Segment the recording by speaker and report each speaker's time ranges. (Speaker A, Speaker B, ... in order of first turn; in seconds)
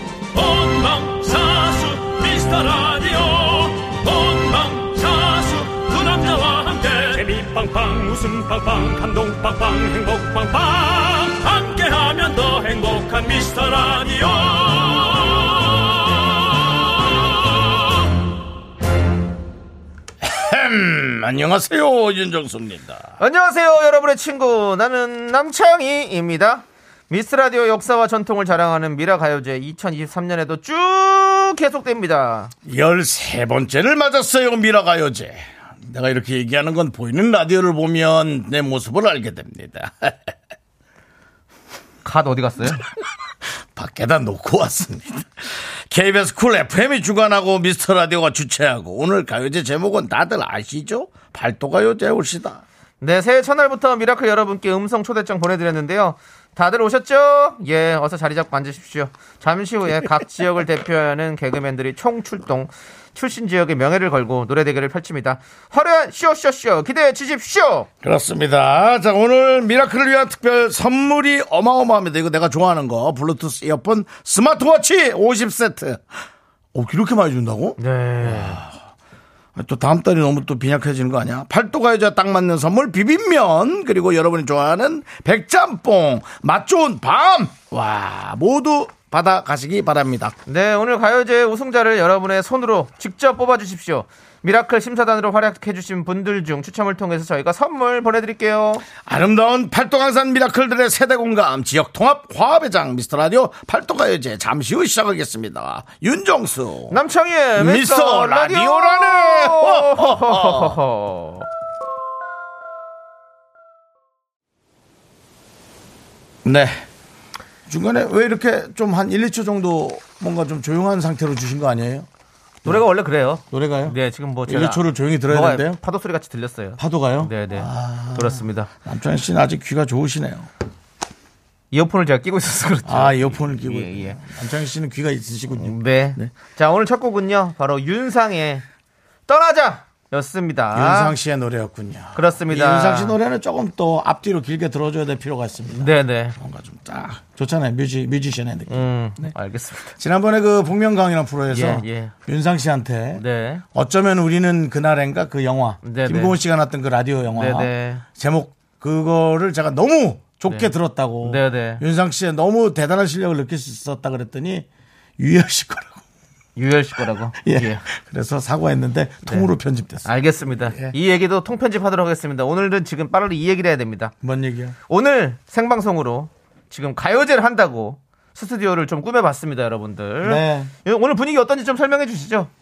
Speaker A: 0.3-17.7
Speaker B: 20.2-23.1, 32.6-40.3, 43.8-52.6, 68.0-76.1, 76.7-78.7, 79.5-90.3, 99.0-107.0, 107.5-110.8, 116.4-116.8, 117.7-122.1, 123.5-124.0, 124.5-125.8, 126.8-130.5, 132.8-136.3, 140.7-149.3, 150.0-153.2, 153.7-164.7, 165.2-166.0, 167.4-170.1, 170.7-170.9, 174.2-174.7, 180.2-180.7
Speaker C: 23.2-32.5, 42.0-42.8, 53.0-67.9, 77.8-78.6, 90.5-98.8, 106.9-111.5, 122.6-128.7, 131.7-134.2, 135.6-138.6, 139.3-141.1, 142.1-143.2, 145.8-146.3, 148.7-149.9, 151.5-152.1, 153.2-153.6, 155.8-156.4, 157.3-158.0, 161.2-161.8, 166.6-167.8, 169.2-169.5, 170.0-174.1, 174.9-182.5